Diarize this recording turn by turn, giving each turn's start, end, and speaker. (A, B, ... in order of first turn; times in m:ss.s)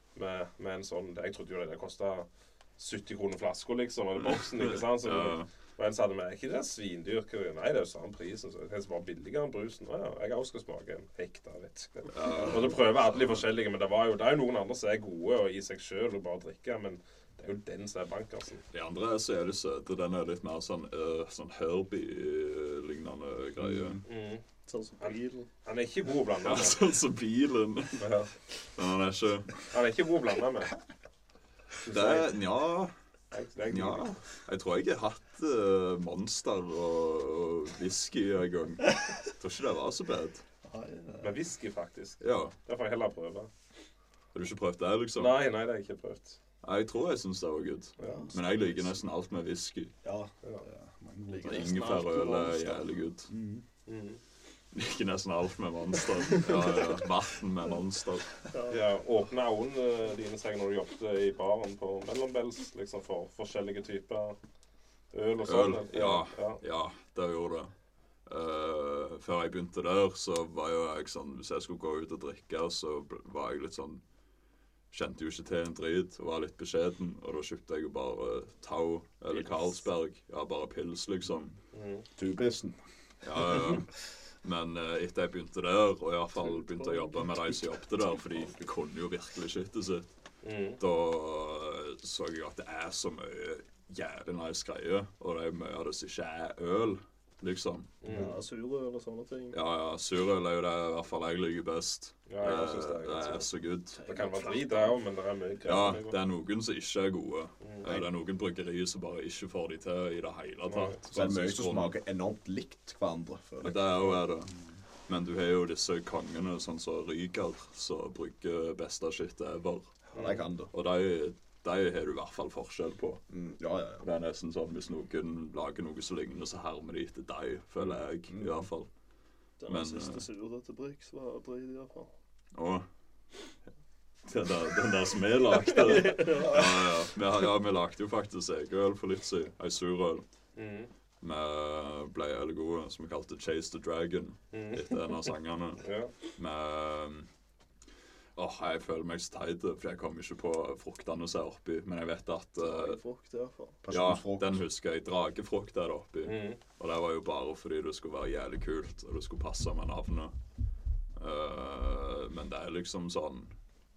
0:00.1-0:18.6 A
0:04.2-0:05.5 B
0:12.1-0:13.4 B
0:18.7-0:24.0 B
0:23.6-0:24.0 C
0:24.0-0:24.4 A
0:24.7-0:25.5 D
0:25.0-0:26.8 A
0:26.4-0:28.1 B
0:28.0-0:28.3 A
0:28.7-0:29.7 B
0:29.7-0:30.7 A
0:31.8-0:32.3 A
0:31.8-0:32.9 B
0:33.3-0:34.2 A
0:33.7-0:40.4 B
0:40.6-0:41.4 E
0:41.2-0:43.5 A
0:42.2-0:42.6 B
0:44.3-0:45.4 B
0:45.1-0:46.4 A
0:46.6-0:49.9 B
0:48.0-0:48.3 A
0:50.0-0:52.2 E
0:51.3-0:52.9 D
0:51.4-0:53.3 B
0:53.3-0:53.6 E
0:53.9-0:54.2 A
0:54.7-0:58.4 B
0:58.5-0:58.8 D
0:58.7-1:04.4 A
1:05.1-1:06.6 A
1:05.4-1:07.7 B
1:08.2-1:14.0 B
1:14.9-1:21.6 B
1:21.7-1:22.1 A
1:22.2-1:22.8 C
1:23.2-1:30.1 B
1:30.4-1:30.8 A
1:30.8-1:37.9 B
1:38.0-1:38.3 A
1:38.1-1:39.6 D
1:39.5-1:44.0 B
1:42.3-1:43.5 A
1:44.0-1:44.9 E
1:44.0-1:46.2 A
1:45.6-1:52.0 B
1:47.6-1:47.9 A
1:50.7-1:51.0 A
1:51.1-1:54.2 C
1:53.6-1:54.5 B
1:55.1-2:00.0 B
2:00.1-2:00.4 A
2:00.1-2:00.7 C
2:00.7-2:03.2 B
2:03.3-2:04.0 C
2:04.0-2:08.9 B
2:07.8-2:08.7 C
2:09.6-2:12.1 D
2:09.7-2:10.2 B
2:12.5-2:12.8 B
2:14.2-2:20.2 B
2:15.7-2:16.6 D
2:20.6-2:20.9 A
2:21.2-2:27.3 B
2:24.5-2:24.8 A
2:25.8-2:26.1 A
2:28.4-2:33.0 B
2:32.6-2:33.8 D
2:33.8-2:34.6 C
2:33.9-2:40.3 B
2:36.2-2:36.6 A
2:41.2-2:43.6 B